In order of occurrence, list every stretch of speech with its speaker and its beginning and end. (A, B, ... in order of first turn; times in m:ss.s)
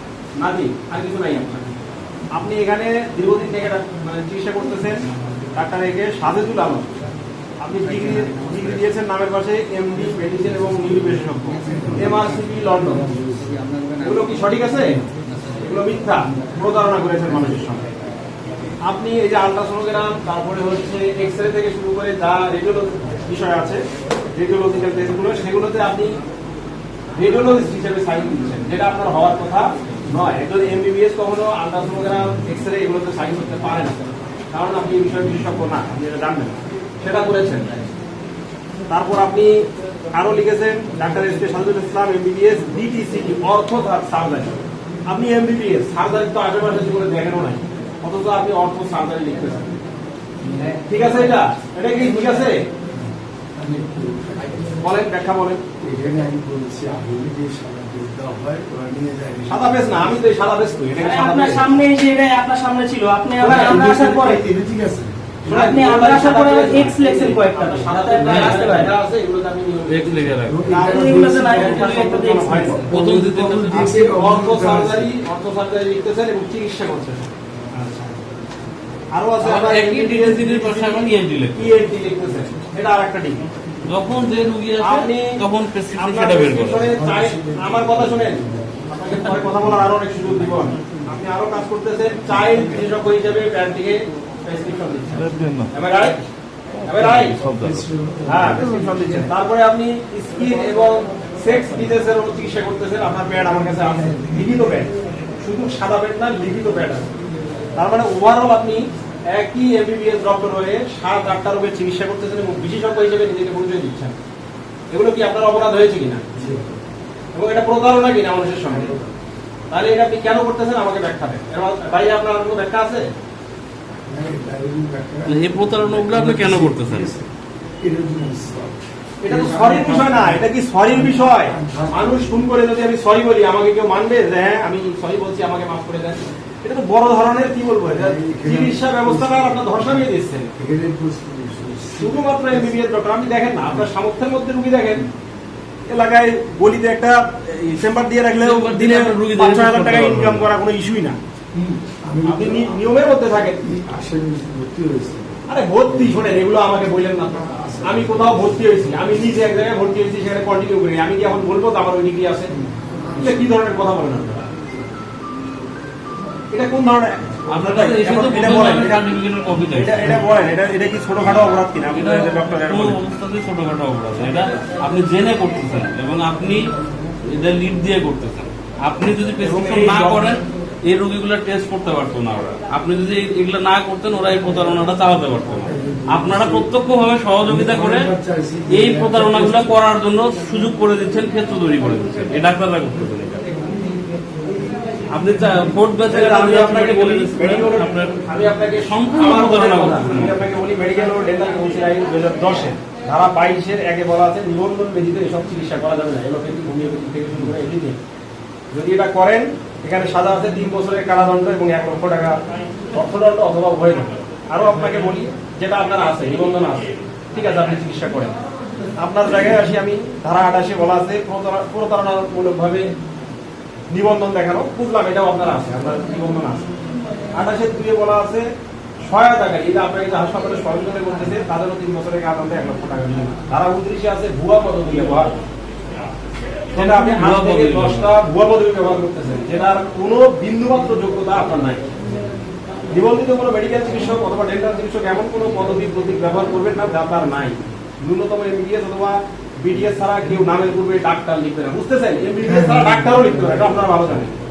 0:00.4-0:01.8 A
0:02.3-0:05.0 A
0:05.6-0:06.9 A
0:07.6-0:13.1 A
0:12.8-0:13.6 B
0:14.0-0:17.8 A
0:18.8-0:23.8 A
0:24.4-0:26.2 A
0:27.2-0:37.8 A
0:38.9-0:49.7 A
0:50.5-0:50.7 B
0:50.9-0:52.6 A
0:53.6-0:54.8 B
0:54.8-0:55.6 A
0:55.8-1:00.2 B
0:59.5-1:01.7 A
1:01.0-1:04.4 C
1:03.4-1:04.0 A
1:03.4-1:05.2 B
1:05.4-1:10.1 A
1:05.5-1:08.9 C
1:08.2-1:08.7 D
1:09.9-1:10.7 D
1:10.5-1:11.7 B
1:10.6-1:12.9 A
1:10.7-1:12.7 C
1:11.5-1:14.0 D
1:12.5-1:15.1 B
1:13.7-1:18.2 A
1:19.1-1:23.4 A
1:19.4-1:21.8 D
1:23.8-1:26.9 D
1:24.8-1:25.4 A
1:26.0-1:36.3 A
1:26.8-1:28.9 B
1:35.1-1:35.7 D
1:36.8-1:37.9 D
1:36.9-1:37.4 A
1:37.4-1:39.3 B
1:38.3-1:47.1 A
1:44.0-1:44.3 B
1:47.8-1:54.2 A
1:54.9-1:56.2 A
1:56.4-1:56.8 B
1:57.3-1:58.9 A
1:58.7-1:59.1 B
1:59.7-2:03.1 A
2:04.1-2:07.3 B
2:05.3-2:07.1 D
2:07.8-2:12.4 B
2:09.2-2:20.5 A
2:17.9-2:19.9 B
2:20.6-2:22.8 B
2:22.0-2:25.0 A
2:25.9-2:31.2 A
2:28.4-2:30.5 D
2:31.5-2:32.9 B
2:32.2-2:33.6 A
2:33.6-2:36.3 B
2:35.5-2:42.5 A
2:37.4-2:38.6 B
2:42.6-2:43.4 B
2:43.2-2:44.5 A
2:46.5-2:49.0 A
2:47.5-2:50.2 D
2:49.7-2:53.0 A
2:51.9-2:56.7 D
2:57.3-3:08.1 D
2:59.4-3:00.4 A
3:05.6-3:06.7 B
3:07.4-3:09.8 B
3:08.7-3:13.5 D
3:15.1-3:18.2 D
3:16.1-3:28.0 A
3:18.8-3:20.4 D
3:28.7-3:32.4 A
3:32.9-3:38.3 A
3:39.0-3:42.9 A
3:43.9-3:46.6 A
3:47.4-3:48.5 A
3:49.0-3:55.3 A
3:56.7-4:01.8 A
3:56.8-3:58.2 D
4:02.9-4:14.4 A
4:12.4-4:13.5 B